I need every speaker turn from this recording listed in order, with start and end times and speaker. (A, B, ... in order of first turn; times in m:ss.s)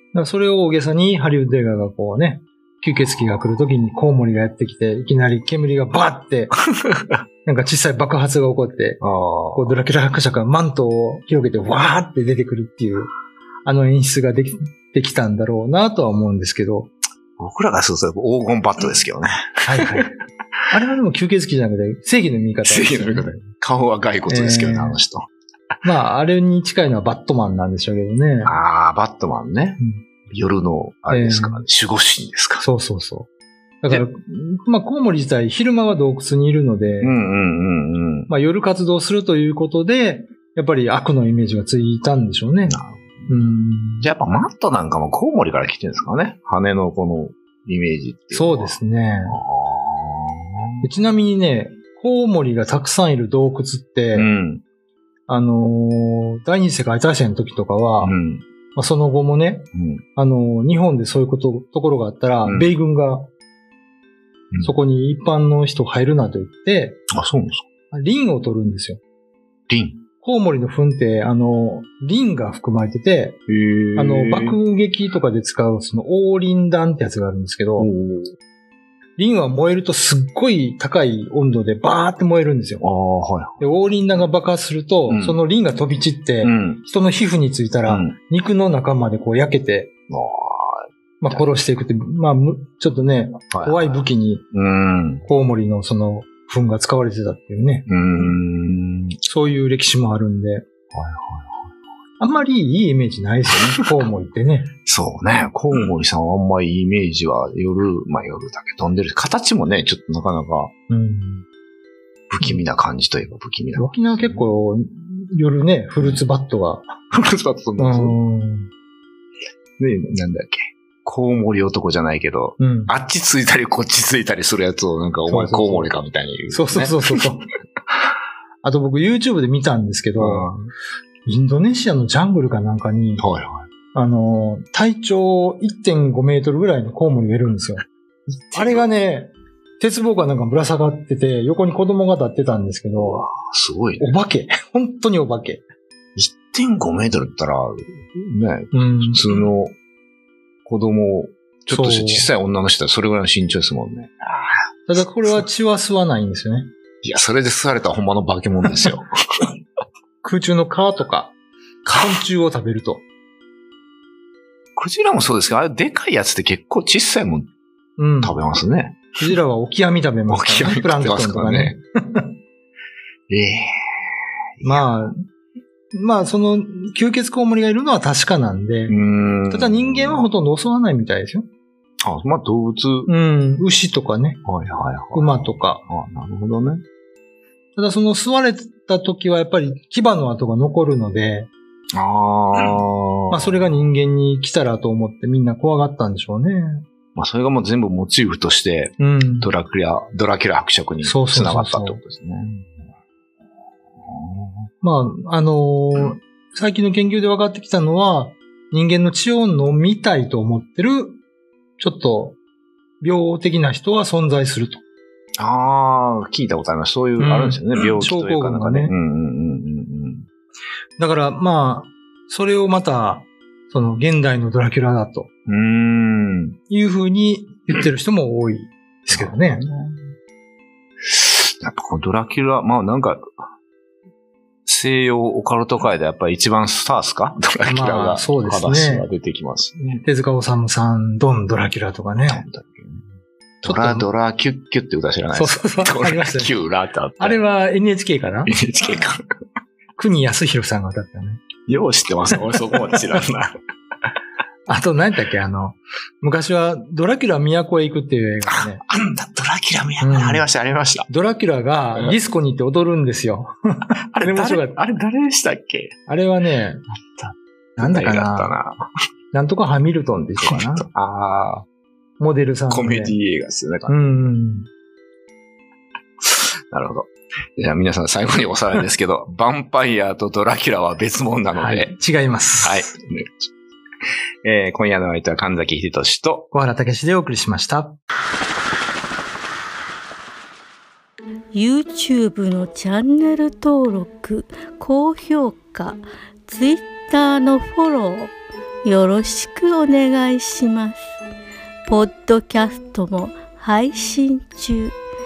0:00.1-0:06.5 A
0:07.4-0:09.0 A
0:09.0-0:09.8 B
0:09.5-0:13.1 A
0:13.6-0:17.0 A
0:17.4-0:20.1 B
0:19.6-0:20.2 A
0:20.7-0:23.3 A
0:22.6-0:25.3 B
0:24.3-0:25.0 A
0:25.8-0:28.6 A
0:28.4-0:32.6 B
0:29.8-0:30.0 A
0:31.1-0:31.6 A
0:32.6-0:33.3 A
0:33.8-0:37.2 A
0:37.0-0:38.3 B
0:38.3-0:44.1 A
0:42.7-0:43.3 B
0:44.0-0:50.9 B
0:48.3-0:49.4 A
0:50.8-0:54.3 A
0:54.1-0:54.6 B
0:55.3-0:58.2 A
0:58.0-0:58.4 B
0:58.8-1:03.3 A
0:59.7-1:00.0 B
1:02.4-1:02.7 B
1:04.6-1:07.0 A
1:07.1-1:07.6 B
1:07.9-1:09.0 A
1:09.7-1:10.0 B
1:10.2-1:13.4 A
1:13.5-1:14.6 B
1:14.0-1:17.9 A
1:17.8-1:18.4 B
1:19.2-1:22.8 A
1:22.8-1:23.8 B
1:23.6-1:29.9 A
1:25.1-1:25.4 B
1:26.4-1:26.8 B
1:27.9-1:28.2 B
1:30.1-1:31.4 B
1:31.2-1:34.4 A
1:33.5-1:35.3 B
1:35.2-1:37.9 A
1:37.9-1:39.2 B
1:39.2-1:40.6 A
1:40.9-1:41.6 B
1:42.2-1:44.7 A
1:43.5-1:43.8 B
1:44.8-1:50.7 B
1:50.9-1:51.4 A
1:52.3-1:54.5 B
1:53.8-1:56.9 A
1:56.0-1:56.2 B
1:57.1-1:58.2 B
1:57.8-1:58.7 A
1:59.8-2:07.3 B
2:02.6-2:02.9 A
2:05.3-2:07.4 A
2:08.6-2:10.5 A
2:10.2-2:10.7 B
2:11.2-2:13.2 A
2:13.2-2:13.7 B
2:13.9-2:17.8 A
2:18.5-2:18.9 B
2:18.5-2:23.3 A
2:23.0-2:24.2 B
2:24.0-2:25.6 A
2:26.2-2:29.8 B
2:28.7-2:29.5 A
2:30.6-2:34.6 B
2:31.7-2:32.3 A
2:34.9-2:36.7 A
2:37.0-2:39.5 B
2:40.2-2:41.3 A
2:41.9-2:43.0 A
2:44.8-2:47.5 B
2:48.0-2:48.4 A
2:48.2-2:49.3 B
2:49.2-2:52.3 A
2:50.3-2:51.8 B
2:53.3-2:53.7 B
2:54.6-2:55.0 B
2:54.6-2:55.2 A
2:55.9-2:59.0 A
2:58.9-3:00.3 B
2:59.5-3:01.5 A
3:02.0-3:03.1 B
3:03.1-3:04.4 A
3:04.4-3:06.8 B
3:05.1-3:05.8 A
3:07.8-3:11.5 A
3:11.9-3:13.8 B
3:12.6-3:16.9 A
3:17.2-3:22.7 B
3:19.0-3:19.5 A
3:21.0-3:22.0 A
3:24.1-3:24.5 B
3:24.8-3:31.2 A
3:31.8-3:32.4 A
3:33.0-3:34.8 A
3:35.4-3:40.3 B
3:37.2-3:38.9 A
3:41.0-3:45.3 A
3:45.5-3:46.6 B
3:46.7-3:49.6 A
3:49.1-3:50.1 B
3:51.0-3:53.2 B
3:54.7-4:00.0 B
3:57.6-3:59.1 A
4:00.0-4:02.4 A
4:02.3-4:03.0 B
4:03.6-4:07.4 B
4:03.6-4:04.1 A
4:05.3-4:06.5 A
4:07.2-4:08.5 A
4:08.5-4:09.2 B
4:10.0-4:11.4 A
4:11.7-4:13.5 B
4:14.7-4:18.8 A
4:18.4-4:21.1 B
4:20.0-4:20.5 A
4:21.1-4:24.8 A
4:24.1-4:26.0 B
4:26.1-4:26.8 A
4:27.2-4:28.9 B
4:27.8-4:28.6 A
4:29.3-4:30.9 A
4:30.4-4:31.6 B
4:32.2-4:33.2 A
4:32.7-4:34.0 B
4:33.9-4:34.7 A
4:36.3-4:42.0 B
4:41.5-4:42.9 A
4:42.6-4:43.5 B
4:44.4-4:46.5 B
4:46.5-4:48.0 A
4:51.5-4:58.3 C
4:58.8-5:01.1 C
5:01.9-5:05.0 C